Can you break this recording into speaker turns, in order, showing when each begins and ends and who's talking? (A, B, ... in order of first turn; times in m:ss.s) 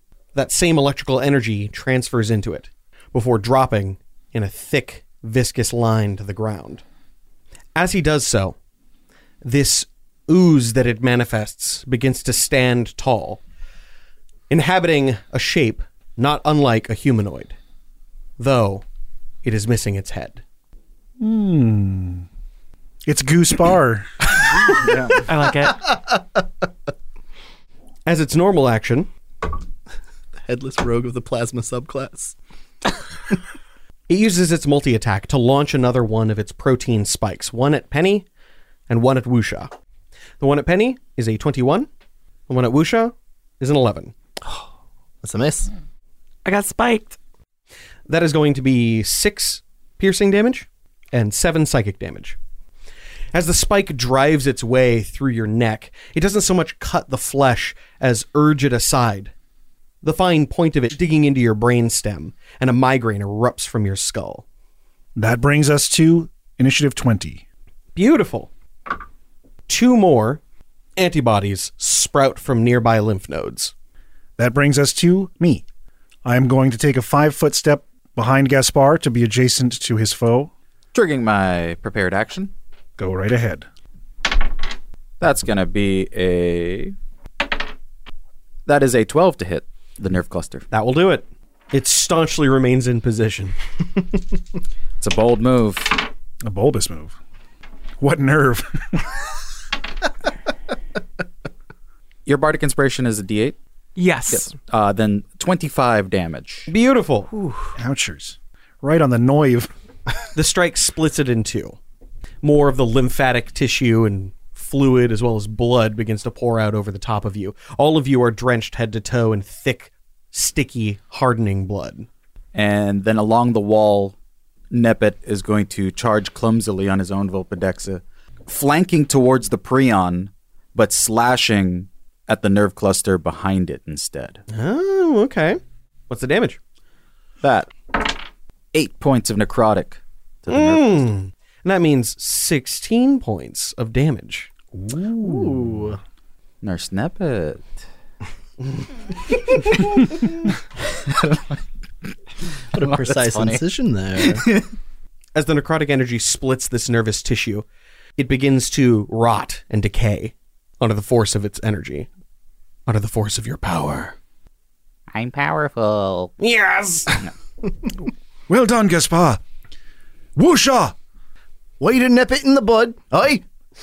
0:00.3-0:06.8 A
0:07.8-0:08.6 A
0:09.4-0:13.4 A
0:14.5-0:17.5 A
0:18.4-0:18.8 A
0:19.4-0:20.4 A
0:21.2-0:22.2 B
0:23.0-0:24.2 B
0:24.7-0:25.3 C
0:25.2-0:25.9 D
0:28.0-0:29.1 A
0:30.4-0:32.4 E
0:34.1-0:38.2 A
0:38.9-0:39.7 A
0:40.4-0:41.9 A
0:42.5-0:44.1 A
0:44.4-0:44.7 E
0:45.2-0:45.7 E
0:46.4-0:47.2 D
0:48.1-0:52.4 A
0:53.3-0:59.3 A
1:00.0-1:04.4 A
1:05.2-1:07.4 B
1:07.9-1:08.5 A
1:09.7-1:10.4 A
1:11.0-1:13.7 A
1:14.4-1:15.6 B
1:16.2-1:20.5 B
1:20.9-1:22.5 C
1:23.0-1:23.7 B
1:25.2-1:26.9 C
1:28.6-1:30.6 C
1:30.7-1:33.5 A
1:35.0-1:36.0 C
1:36.4-1:37.1 B
1:38.0-1:39.2 B
1:42.2-1:43.6 C
1:44.0-1:44.5 D
1:44.3-1:46.7 C
1:46.7-1:47.4 A
1:47.8-1:49.7 B
1:50.3-1:51.8 A
1:52.4-2:02.1 A
2:02.5-2:04.1 C
2:04.7-2:14.4 C
2:14.5-2:16.6 A
2:17.4-2:18.1 C
2:18.7-2:21.0 C
2:20.5-2:24.5 A
2:24.7-2:26.0 B
2:25.2-2:26.0 E
2:26.6-2:27.7 C
2:29.6-2:30.1 C
2:31.0-2:31.4 C
2:32.7-2:34.4 E
2:32.7-2:33.6 C
2:34.2-2:34.6 C
2:35.3-2:37.6 A
2:38.2-2:42.1 A
2:42.9-2:44.1 A
2:45.1-2:46.3 C
2:46.4-2:47.1 A
2:48.5-2:49.4 B
2:50.4-2:50.9 B
2:51.8-2:53.4 E